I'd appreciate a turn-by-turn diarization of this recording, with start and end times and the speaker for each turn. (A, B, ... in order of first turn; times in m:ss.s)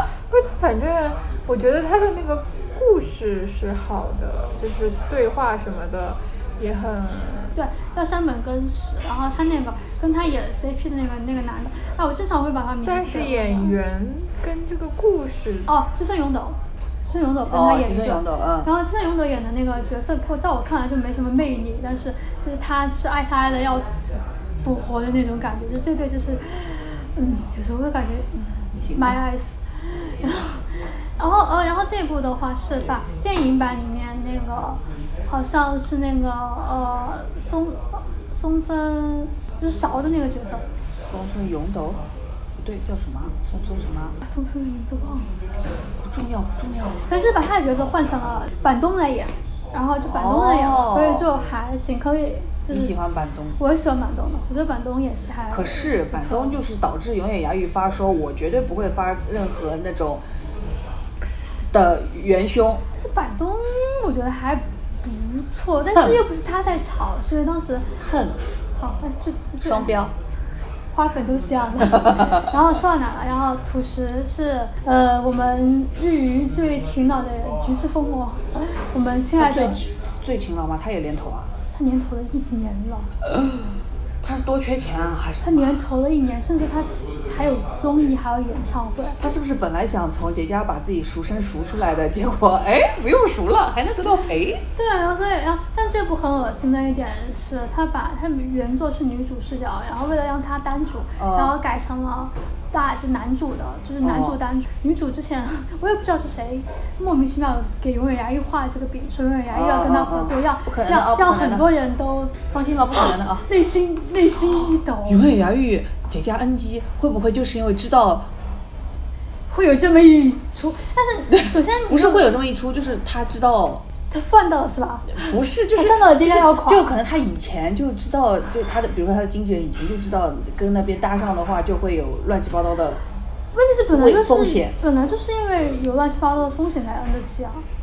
0:00.3-0:07.6 A
0:07.6-0:13.8 B
0:12.8-0:15.7 A
0:15.7-0:40.6 B
0:17.5-0:18.7 C
0:28.7-0:29.2 C
0:41.1-0:42.0 C
0:42.6-0:44.2 C
0:44.2-0:45.3 B
0:46.0-0:47.0 C
0:47.1-0:53.0 B
0:50.0-0:51.3 C
0:52.7-0:53.6 C
0:53.6-0:56.6 B
0:55.5-1:00.2 C
1:01.7-1:02.8 C
1:03.0-1:08.0 B
1:08.0-1:08.4 C
1:08.8-1:09.9 B
1:09.6-1:10.1 C
1:10.9-1:19.8 B
1:19.4-1:21.5 C
1:21.7-1:23.1 B
1:23.2-1:25.8 C
1:25.4-1:29.3 B
1:29.2-1:34.6 C
1:34.8-1:55.2 B
1:41.2-1:41.5 C
1:44.0-1:44.4 C
1:49.5-1:51.7 C
1:52.5-1:53.5 C
1:55.0-1:58.3 C
1:59.5-2:02.4 B
2:01.3-2:03.8 C
2:04.1-2:06.9 B
2:05.1-2:13.0 C
2:13.5-2:17.6 B
2:13.9-2:14.7 C